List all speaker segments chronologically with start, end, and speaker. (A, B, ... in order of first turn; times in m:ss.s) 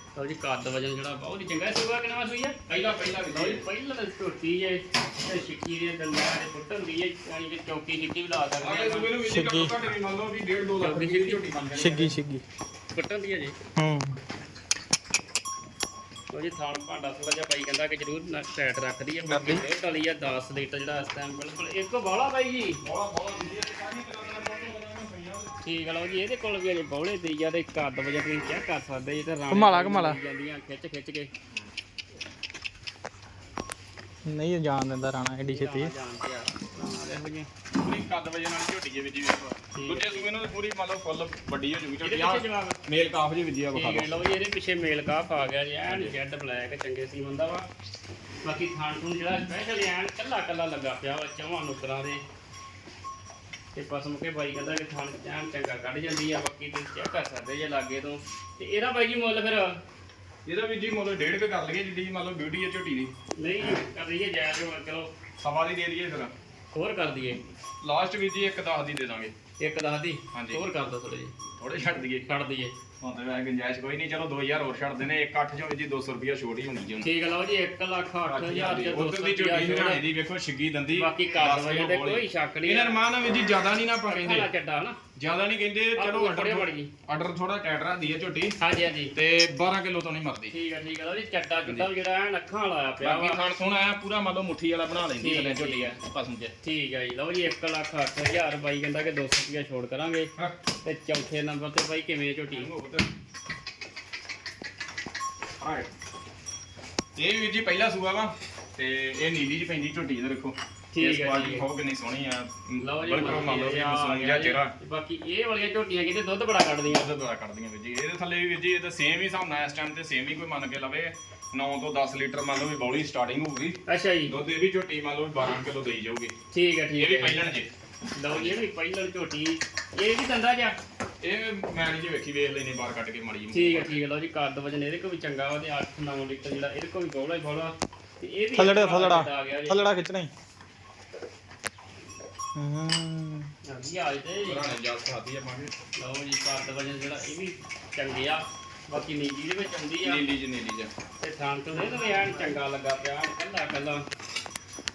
0:00.2-0:02.7 A
0:02.7-0:03.6 B
0:03.3-0:09.1 A
0:08.6-0:12.2 B
0:09.2-0:09.8 C
0:10.8-0:11.4 A
0:11.8-0:12.4 C
0:12.9-0:13.5 A
0:13.8-0:14.2 C
0:16.3-0:22.8 A
0:19.3-0:19.6 C
0:22.8-0:25.5 B
0:25.6-0:31.3 A
0:29.5-0:30.2 C
0:34.2-0:35.9 C
0:35.4-0:37.5 A
0:37.8-0:44.1 B
0:39.7-0:40.3 A
0:42.0-0:42.8 A
0:43.7-0:47.7 A
0:45.9-0:46.1 B
0:48.4-0:52.2 A
0:53.7-0:59.8 A
1:00.4-1:03.1 B
1:03.4-1:05.1 A
1:05.4-1:06.3 B
1:06.7-1:07.4 A
1:07.8-1:09.3 B
1:09.6-1:11.3 A
1:10.3-1:10.6 B
1:11.6-1:12.3 B
1:12.2-1:12.7 A
1:13.0-1:17.1 B
1:17.0-1:20.0 A
1:18.2-1:24.5 B
1:21.0-1:23.0 A
1:24.1-1:25.0 A
1:25.2-1:28.6 B
1:26.0-1:26.9 A
1:28.6-1:29.1 A
1:29.1-1:30.5 B
1:30.5-1:33.4 A
1:33.0-1:36.5 B
1:35.2-1:36.0 A
1:36.6-1:40.3 A
1:40.8-1:42.7 A
1:42.5-1:43.1 B
1:45.6-1:45.9 B
1:47.2-1:54.7 B
1:50.9-1:51.6 A
1:52.8-1:57.1 A
1:56.8-2:06.3 B
2:03.9-2:04.3 A
2:06.5-2:07.4 A
2:07.0-2:07.7 B
2:08.1-2:10.8 A
2:08.3-2:08.6 B
2:11.2-2:14.0 B
2:13.5-2:19.9 A
2:18.6-2:20.3 B
2:22.6-2:23.4 B
2:23.7-2:24.6 A
2:24.4-2:25.7 B
2:26.0-2:30.2 A
2:30.0-2:30.9 B
2:31.2-2:34.0 A